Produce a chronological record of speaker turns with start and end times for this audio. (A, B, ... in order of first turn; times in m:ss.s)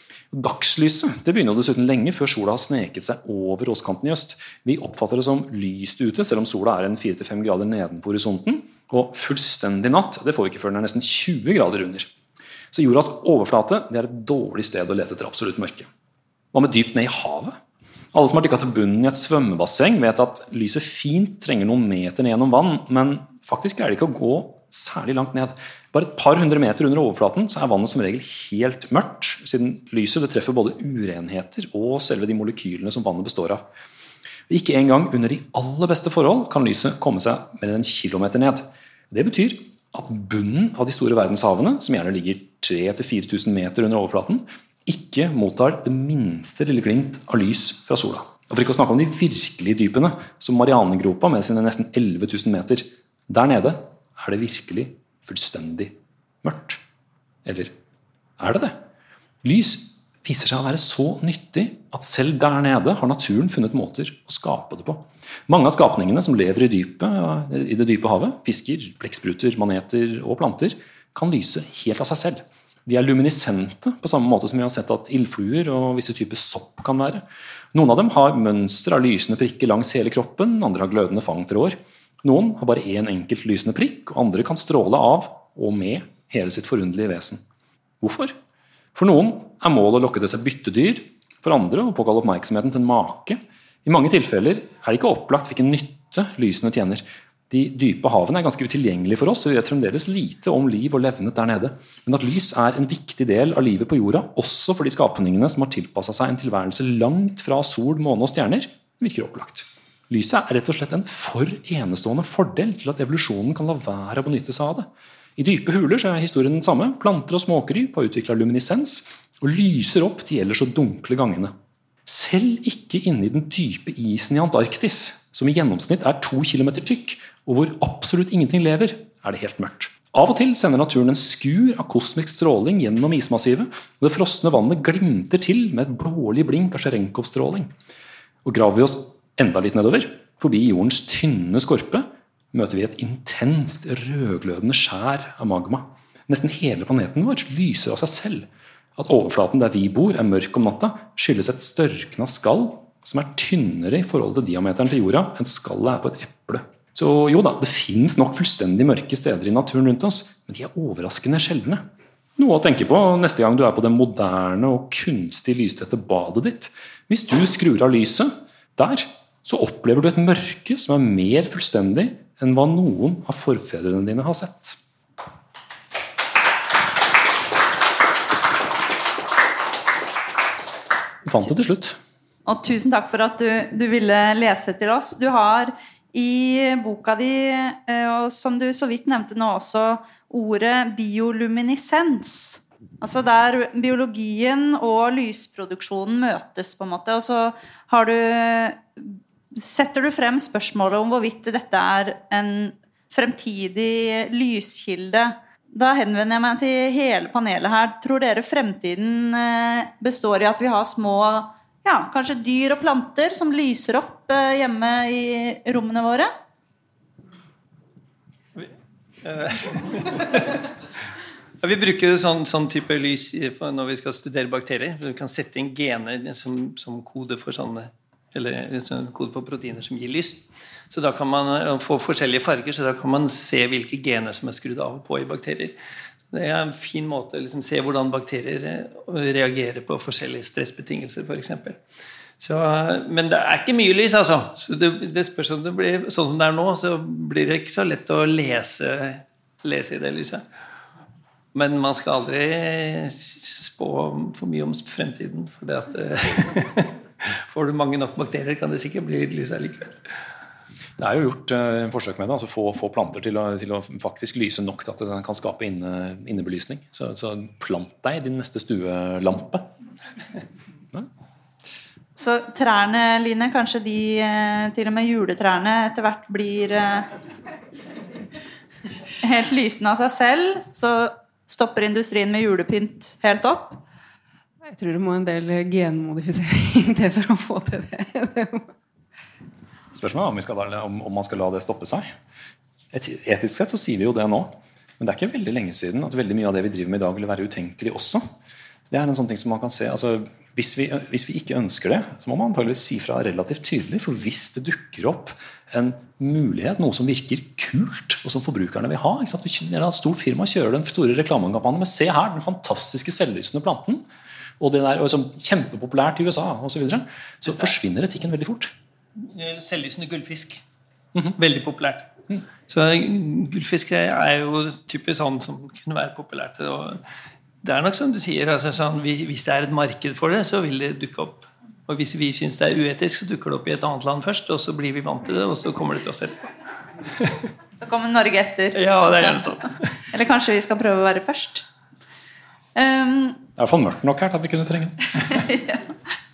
0:00.3-0:12.1 A
0:12.7-0:15.9 A
0:16.5-0:17.6 A
0:18.1-0:33.6 A
0:34.5-0:56.8 A
0:57.4-0:57.7 A
0:58.4-0:58.8 A
0:59.4-1:27.4 A
1:28.0-1:28.4 A
1:28.9-2:01.5 A
2:02.1-2:17.7 A
2:18.4-2:41.8 A
2:42.4-2:54.8 A
3:01.2-3:02.0 A
3:02.5-3:36.3 B
3:39.2-3:40.6 C
3:41.6-3:55.8 C
3:56.3-4:01.8 C
4:02.4-4:10.4 C
4:11.5-4:20.0 C
4:21.0-4:29.7 A
4:32.2-4:37.1 B
4:39.2-4:43.8 B
4:44.6-4:48.7 D
4:49.9-4:52.1 A
4:52.9-4:58.2 A
4:58.9-5:14.1 A
5:14.6-5:18.7 A
5:19.2-5:20.6 C
5:21.4-5:22.1 C
5:22.7-5:27.0 C
5:27.6-5:36.5 C
5:37.8-5:39.4 B
5:38.8-5:39.8 C
5:40.1-5:41.6 B
5:42.8-5:43.4 B
5:43.6-5:45.4 A
5:45.2-5:45.9 B